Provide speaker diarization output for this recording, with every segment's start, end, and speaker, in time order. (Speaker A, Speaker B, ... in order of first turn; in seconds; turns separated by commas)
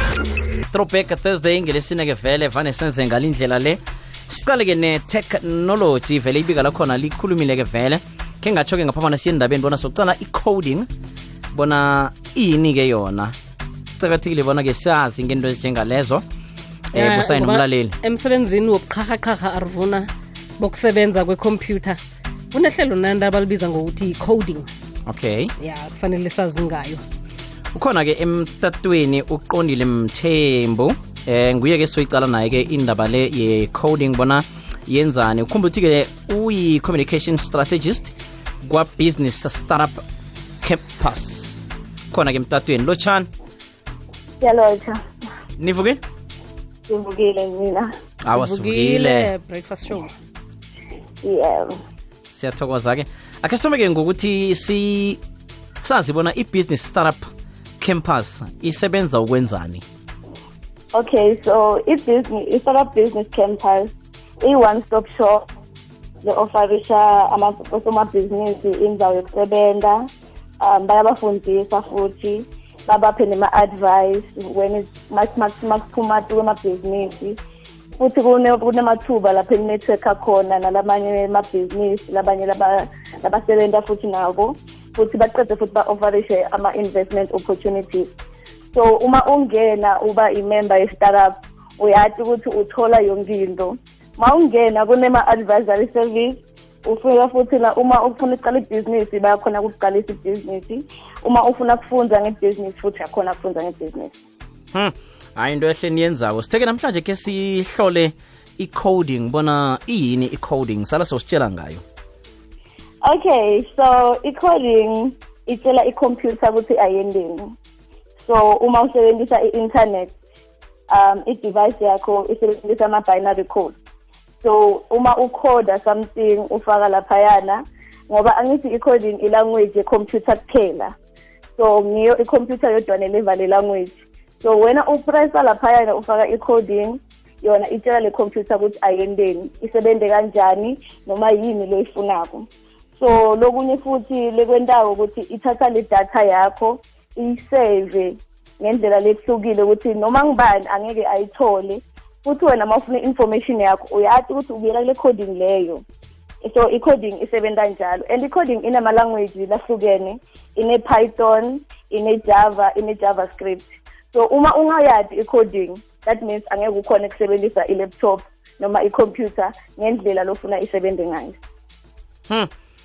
Speaker A: 0.7-10.9, Speaker A: 11.5-13.3, Speaker A: 14.0-16.2, Speaker A: 16.9-18.0, Speaker B: 16.9-22.0, Speaker B: 22.5-24.7, Speaker A: 25.1-25.5, Speaker B: 25.6-27.0, Speaker A: 27.7-38.1, Speaker A: 38.6-40.0, Speaker A: 40.6-43.3, Speaker C: 44.4-45.0, Speaker A: 45.6-46.0, Speaker C: 46.9-47.9, Speaker A: 48.2-49.3, Speaker B: 48.3-50.1, Speaker C: 51.2-51.8, Speaker A: 52.3-55.2, Speaker A: 55.8-57.3, Speaker A: 57.8-59.8, Speaker C: 60.9-65.5, Speaker C: 66.2-70.0, Speaker C: 70.6-77.4, Speaker C: 78.0-88.1, Speaker C: 88.7-104.2, Speaker A: 104.7-111.8, Speaker C: 113.0-117.5, Speaker C: 118.2-120.1, Speaker C: 120.9-123.8, Speaker C: 124.4-130.9, Speaker C: 131.6-155.8, Speaker C: 156.4-171.4